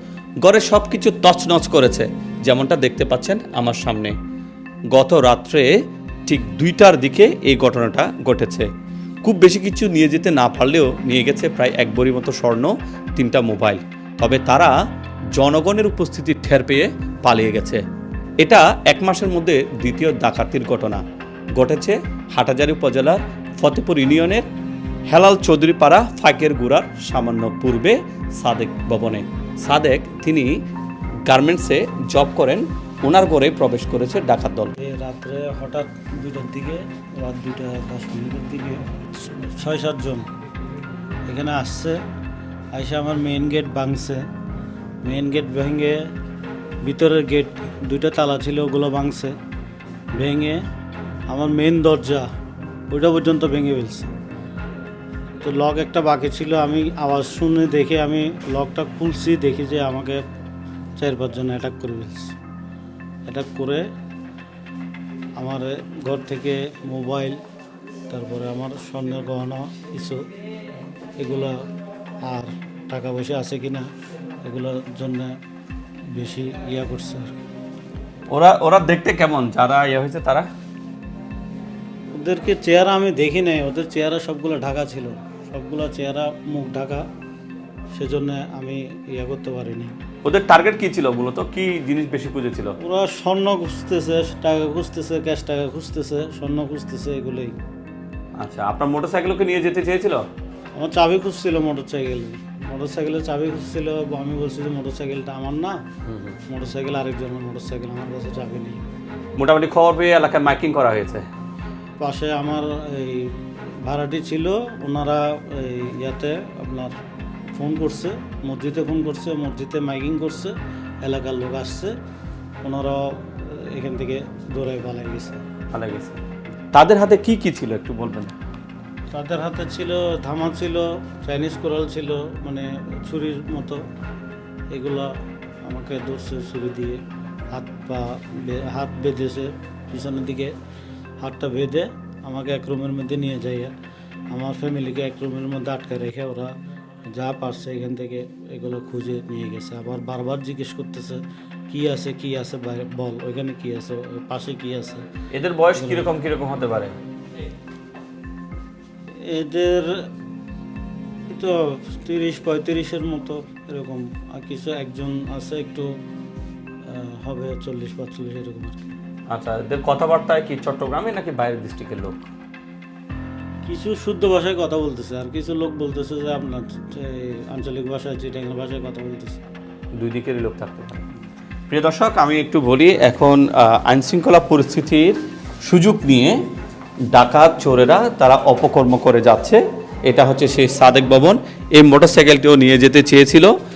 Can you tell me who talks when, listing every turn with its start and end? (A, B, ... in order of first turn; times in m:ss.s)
0:00.4-0:04.2 A
0:04.9-0:08.7 A
0:09.2-0:14.7 A
0:15.3-0:17.8 A
0:18.4-0:21.0 A
0:21.6-0:24.5 A
0:25.1-0:30.5 A
0:31.3-0:34.8 A
0:34.8-0:40.3 B
0:41.3-0:42.0 B
0:42.7-0:44.2 B
0:45.0-0:46.1 B
0:46.8-0:49.4 B
0:50.1-0:50.6 B
0:51.3-0:52.3 B
0:52.9-0:54.1 B
0:55.4-1:00.2 B
1:01.0-1:02.3 B
1:03.3-1:03.8 B
1:05.4-1:07.4 B
1:08.1-1:10.2 B
1:11.2-1:11.6 B
1:12.2-1:13.9 B
1:14.4-1:15.4 B
1:16.1-1:17.4 B
1:18.3-1:20.5 A
1:22.2-1:27.1 B
1:28.0-1:30.0 B
1:30.2-1:32.8 A
1:32.8-1:37.6 B
1:38.4-1:40.2 A
1:40.8-1:45.8 B
1:46.1-1:46.4 A
1:46.5-1:48.8 B
1:49.4-1:51.3 A
1:52.0-1:56.9 B
1:57.6-2:01.9 B
2:02.6-2:05.4 B
2:05.7-2:06.2 A
2:06.7-2:08.3 A
2:09.1-2:13.8 B
2:14.7-2:15.1 B
2:15.7-2:17.0 B
2:17.5-2:20.5 B
2:21.2-2:23.7 B
2:24.3-2:26.5 B
2:27.2-2:35.0 B
2:35.3-2:37.0 A
2:35.8-2:36.1 B
2:39.2-2:40.1 B
2:41.3-2:45.9 B
2:46.8-2:48.8 B
2:49.3-2:52.3 A
2:53.7-2:59.4 B
3:00.0-3:01.0 A
3:01.7-3:06.4 A
3:07.1-3:13.5 A